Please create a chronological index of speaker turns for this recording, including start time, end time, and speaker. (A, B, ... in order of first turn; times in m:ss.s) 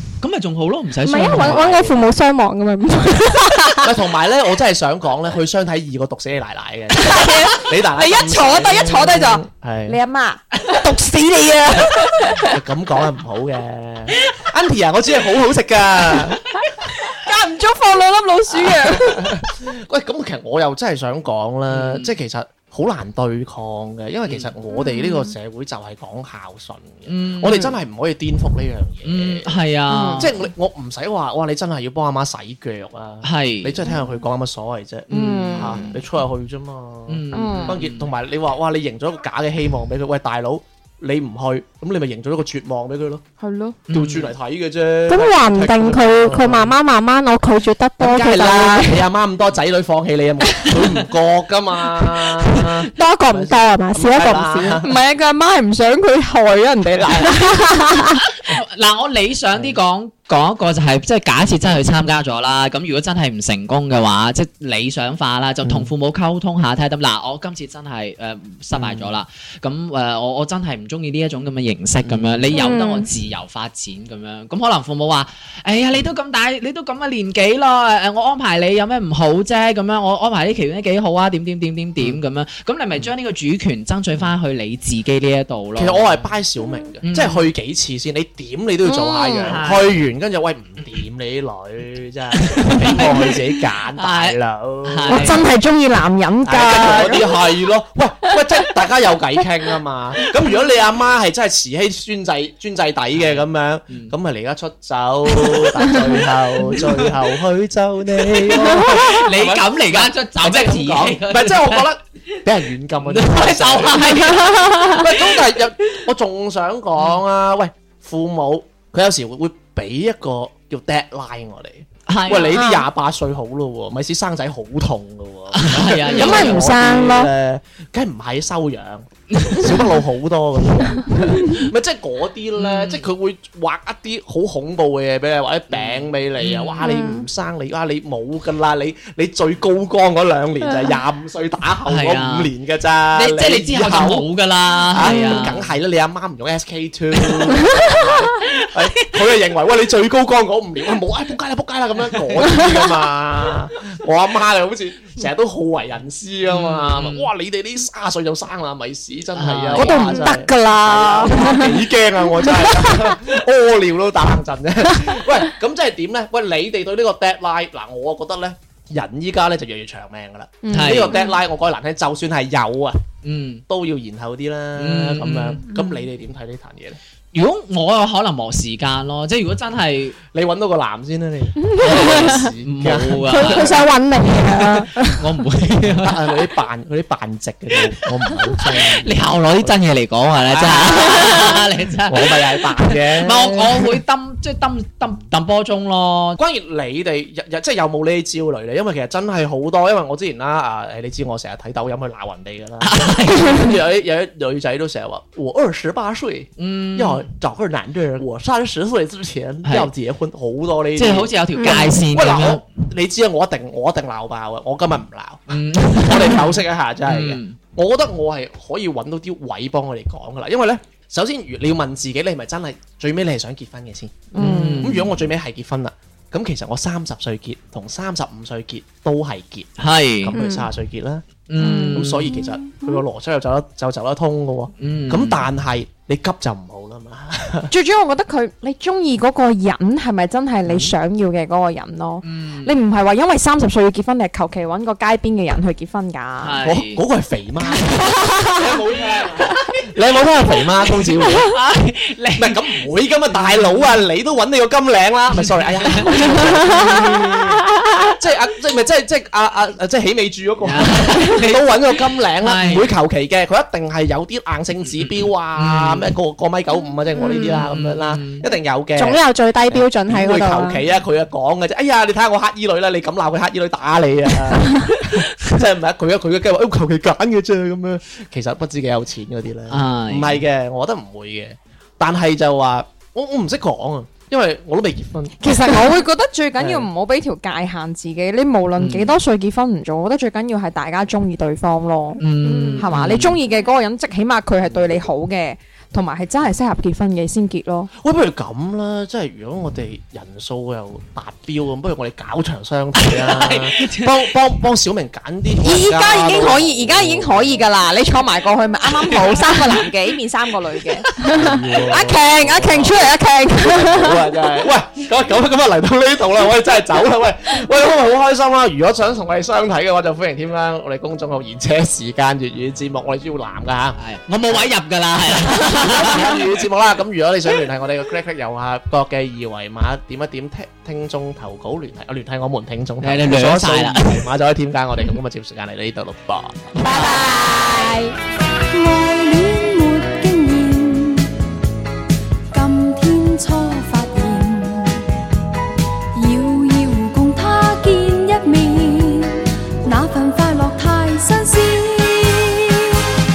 0:00.2-0:01.7 A
0:01.0-0:03.9 B
0:01.2-0:02.0 C
0:03.8-0:10.0 C
0:06.9-0:12.6 D
0:12.4-0:16.6 C
0:17.1-0:19.4 D
0:18.5-0:29.5 C
0:21.7-0:22.1 A
0:27.1-0:27.8 A
0:29.0-0:30.4 A
0:29.9-0:30.3 D
0:30.2-0:43.2 C
0:33.2-0:33.8 A
0:35.1-0:36.0 A
0:35.1-0:36.0 D
0:37.1-0:38.1 A
0:37.3-0:37.8 D
0:43.4-0:43.8 D
0:43.9-0:44.4 A
0:43.9-0:46.7 C
0:45.1-0:49.0 B
0:48.0-0:55.0 C
0:53.0-0:54.8 B
0:54.8-0:57.6 D
0:57.0-0:57.4 C
0:57.5-0:58.2 B
0:58.4-1:26.3 A
1:05.6-1:05.9 C
1:08.7-1:09.2 C
1:12.0-1:12.8 C
1:12.6-1:12.9 D
1:12.6-1:13.0 B
1:25.8-1:35.4 C
1:27.0-1:27.5 A
1:28.8-1:29.6 D
1:29.4-1:30.0 A
1:32.4-1:35.5 A
1:35.1-1:37.4 D
1:36.4-2:24.3 C
1:43.2-1:44.1 A
1:46.7-1:47.2 A
1:48.4-1:52.4 A
1:53.0-1:55.3 A
1:54.4-1:55.0 B
2:02.1-2:02.6 A
2:02.5-2:02.9 B
2:05.5-2:06.7 A
2:06.1-2:07.3 D
2:09.3-2:09.8 A
2:12.6-2:13.1 A
2:15.7-2:16.9 A
2:16.8-2:17.2 B
2:21.9-2:22.5 A
2:23.2-2:25.8 A
2:24.8-2:53.1 C
2:27.2-2:29.2 A
2:32.0-2:32.8 A
2:36.5-2:37.3 A
2:39.4-2:40.3 A
2:39.8-2:41.8 D
2:50.6-2:51.2 D
2:50.7-2:51.2 A
2:53.2-2:53.6 A
2:53.7-2:57.0 C
2:54.8-2:55.6 A
2:57.3-3:00.2 A
3:00.3-3:03.8 C
3:01.8-3:06.5 A
3:03.3-3:05.2 B
3:05.8-3:09.8 C
3:08.6-3:16.4 A
3:10.5-3:14.0 C
3:16.4-3:49.7 C
3:22.8-3:23.8 A
3:26.6-3:27.2 A
3:31.0-3:32.6 A
3:35.5-3:37.6 A
3:44.3-3:45.0 D
3:44.4-3:45.2 A
3:49.8-3:50.4 A
3:50.2-3:57.7 C
3:50.3-3:50.7 B
3:51.5-3:52.4 A
3:51.6-3:52.9 D
3:54.8-3:55.5 A
3:57.7-4:06.6 D
4:00.6-4:00.9 C
4:02.2-4:02.8 A
4:06.4-4:07.0 A
4:06.6-4:11.6 C
4:07.8-4:08.6 D
4:11.0-4:12.8 A
4:12.4-4:45.9 C
4:13.4-4:13.9 A
4:15.4-4:17.3 A
4:20.6-4:22.9 A
4:25.0-4:26.1 A
4:27.2-4:27.5 B
4:27.4-4:28.4 A
4:29.0-4:30.8 B
4:39.7-4:40.4 A
4:45.4-4:57.9 D
4:46.6-4:46.9 C
4:48.8-4:49.2 A
4:52.2-4:53.4 A
4:52.8-4:53.2 C
4:54.6-4:55.1 C
4:58.0-5:07.7 C
5:03.0-5:04.2 A
5:05.6-5:14.2 D
5:08.9-5:09.8 A
5:11.2-5:13.1 C
5:13.6-5:24.0 C
5:24.0-5:26.5 A
5:25.5-5:36.7 C
5:33.0-5:34.3 A
5:36.8-5:37.3 A
5:36.8-5:38.1 B
5:38.7-5:41.3 E
5:42.5-5:45.1 E
5:46.1-5:53.0 E